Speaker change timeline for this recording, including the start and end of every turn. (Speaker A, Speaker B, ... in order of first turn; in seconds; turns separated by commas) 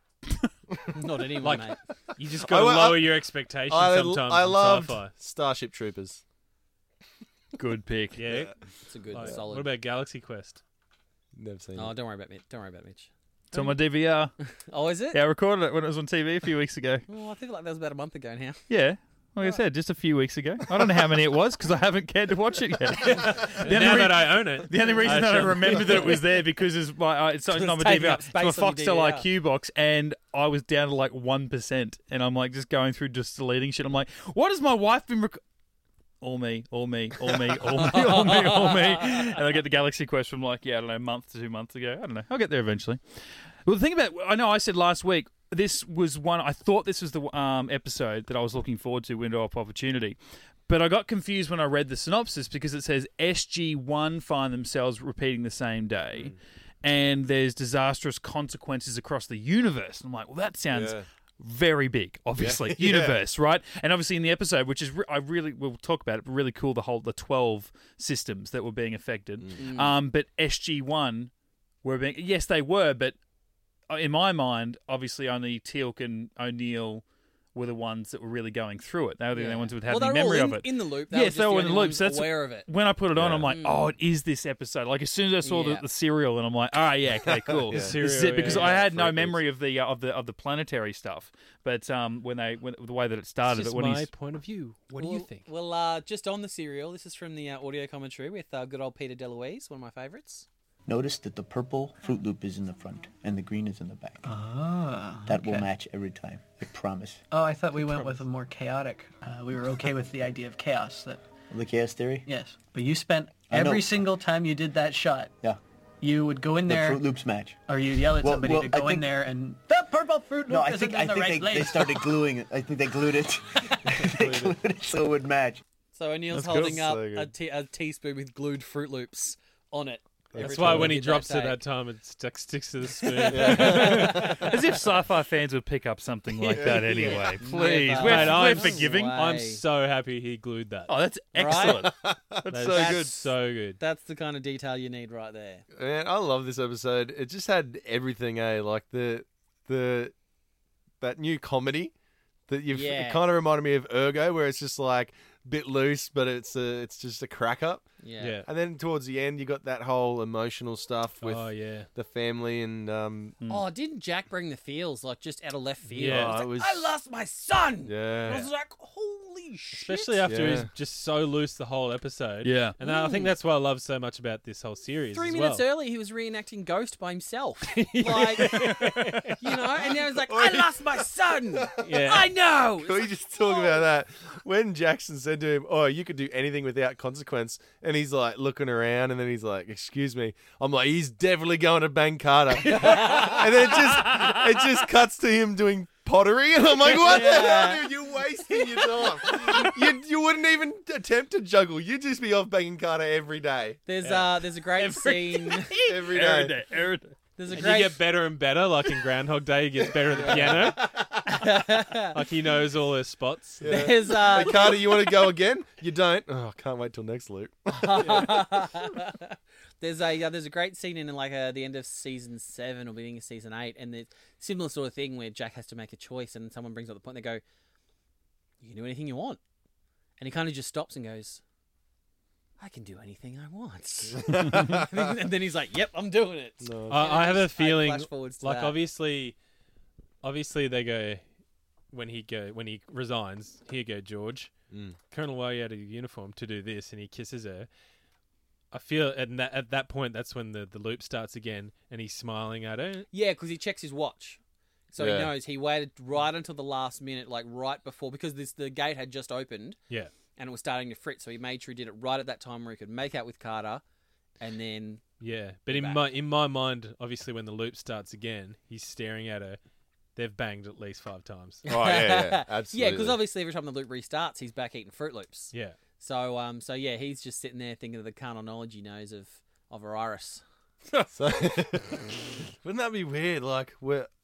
Speaker A: 0.9-1.8, Speaker B: 1.4-5.1, Speaker C: 2.3-6.2, Speaker D: 7.6-8.2, Speaker B: 8.2-8.5, Speaker C: 8.3-8.5, Speaker A: 8.9-9.7, Speaker B: 9.1-10.6, Speaker C: 11.3-11.9, Speaker A: 11.7-13.1, Speaker D: 13.5-14.3, Speaker A: 14.7-15.2, Speaker D: 15.1-17.1, Speaker A: 17.1-18.6, Speaker D: 18.7-35.4, Speaker B: 23.1-26.2, Speaker A: 24.8-26.1, Speaker A: 27.5-29.2, Speaker D: 36.2-43.0, Speaker A: 37.9-38.7, Speaker D: 43.6-50.2, Speaker D: 50.7-71.3, Speaker C: 60.7-61.0, Speaker C: 62.4-63.1, Speaker A: 69.6-70.0, Speaker D: 71.8-73.2, Speaker D: 73.9-77.0, Speaker D: 77.5-94.1, Speaker A: 79.3-82.7, Speaker C: 83.2-83.5, Speaker A: 83.5-83.9, Speaker A: 85.4-85.8, Speaker C: 87.3-89.4, Speaker B: 87.7-88.8, Speaker B: 93.4-95.5, Speaker A: 95.0-100.4, Speaker E: 100.9-104.3, Speaker F: 104.2-105.7, Speaker E: 105.2-107.2, Speaker F: 107.3-111.2, Speaker E: 111.5-112.3, Speaker F: 112.2-115.3, Speaker E: 113.5-113.9, Speaker F: 116.0-117.1, Speaker E: 116.7-117.6, Speaker F: 117.6-122.2, Speaker E: 118.1-119.1, Speaker E: 120.5-125.6, Speaker A: 125.9-131.6, Speaker C: 126.3-127.3, Speaker D: 126.4-126.7, Speaker C: 130.3-130.9, Speaker B: 130.4-134.3, Speaker A: 133.0-134.6, Speaker C: 133.2-134.5, Speaker D: 134.4-139.1, Speaker A: 136.4-139.6, Speaker C: 136.5-137.3, Speaker B: 137.9-140.9, Speaker D: 140.9-142.9, Speaker A: 141.3-141.9, Speaker C: 141.6-143.1, Speaker B: 142.5-143.8, Speaker A: 142.7-145.6, Speaker C: 145.7-150.1, Speaker C: 151.0-151.9, Speaker C: 152.5-157.9, Speaker A: 152.7-153.2, Speaker A: 158.0-158.4, Speaker B: 158.2-158.5, Speaker C: 158.4-163.4, Speaker B: 161.2-161.9, Speaker A: 163.5-170.3, Speaker B: 165.9-166.4, Speaker C: 166.0-166.9, Speaker C: 167.8-168.5, Speaker B: 169.7-175.6, Speaker C: 170.3-170.7, Speaker D: 172.4-172.8, Speaker A: 172.8-173.3, Speaker A: 175.1-183.8, Speaker B: 177.7-179.5, Speaker C: 180.3-180.7, Speaker B: 181.8-182.3, Speaker C: 182.8-203.8, Speaker A: 192.7-193.5, Speaker A: 196.8-197.9, Speaker A: 198.5-199.7, Speaker A: 203.8-205.7, Speaker B: 204.0-204.4, Speaker D: 205.7-207.1, Speaker C: 205.9-206.5, Speaker A: 207.4-208.2, Speaker B: 207.5-210.9, Speaker C: 210.1-211.2, Speaker A: 210.2-212.2, Speaker B: 212.1-213.9, Speaker C: 213.6-218.5, Speaker A: 213.6-215.0, Speaker A: 217.8-227.4, Speaker A: 228.6-229.4, Speaker A: 230.2-231.4, Speaker A: 232.6-238.8, Speaker C: 234.1-234.9, Speaker C: 236.6-237.2, Speaker B: 236.9-239.3, Speaker B: 240.2-241.2, Speaker B: 241.9-244.5, Speaker C: 244.7-245.0, Speaker B: 245.1-247.7, Speaker B: 248.7-253.1, Speaker A: 253.1-254.4, Speaker A: 254.9-259.8, Speaker C: 255.0-255.3, Speaker A: 260.3-263.8, Speaker A: 264.4-265.0, Speaker B: 265.2-269.6, Speaker A: 265.7-266.1, Speaker B: 270.1-271.6, Speaker C: 271.7-273.2, Speaker A: 271.7-280.4, Speaker B: 275.5-275.8, Speaker C: 281.0-284.1